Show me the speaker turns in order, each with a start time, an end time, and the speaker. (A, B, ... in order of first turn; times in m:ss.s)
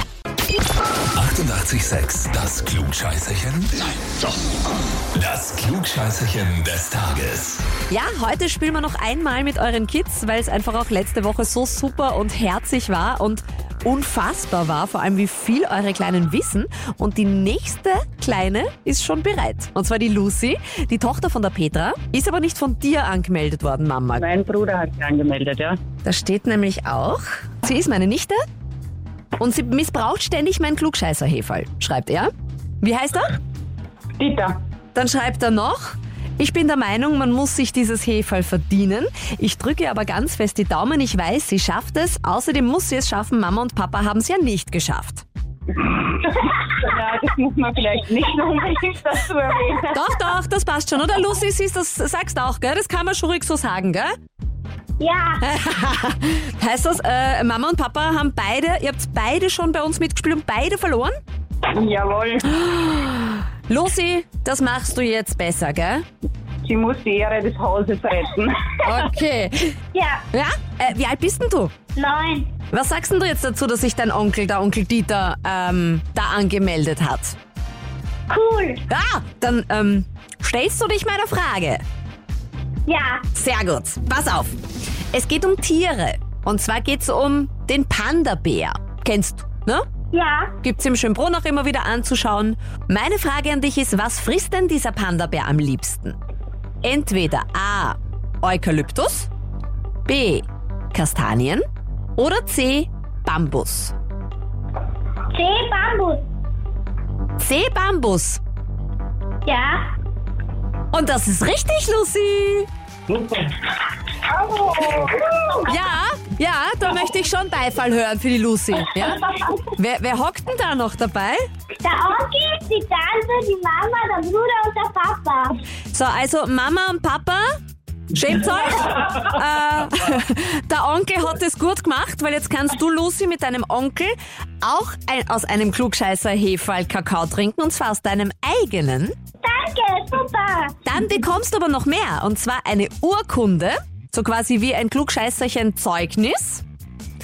0:01.1-0:04.0 A
0:05.1-0:07.6 A
0:07.9-0:24.3 B
0:24.1-0:25.8 C
0:26.0-0:28.4 B
0:29.4-0:33.3 B
0:34.2-0:34.6 C
0:34.9-0:45.2 B
0:45.8-0:50.2 C
0:49.9-0:54.1 B
0:55.0-0:55.4 D
0:55.4-1:01.1 B
1:01.6-1:02.6 C
1:02.6-1:06.0 B
1:06.6-1:08.7 C
1:08.8-1:09.8 B
1:09.9-1:10.2 D
1:10.3-1:11.7 B
1:12.0-1:12.5 D
1:12.7-1:17.4 B
1:18.3-1:18.8 D
1:18.9-1:21.8 B
1:22.9-1:23.2 D
1:23.3-1:24.6 B
1:25.1-1:29.8 B
1:30.1-1:30.5 D
1:30.6-1:36.2 B
1:36.8-1:39.3 B
1:40.1-1:41.6 B
1:42.2-1:43.9 B
1:45.3-1:46.2 D
1:47.4-1:48.4 B
1:49.4-1:49.9 D
1:50.9-1:52.7 B
1:54.2-1:55.8 D
1:55.7-2:01.4 B
2:01.8-2:05.6 D
2:05.9-2:07.4 B
2:08.1-2:19.1 B
2:19.4-2:20.8 D
2:20.8-2:26.6 B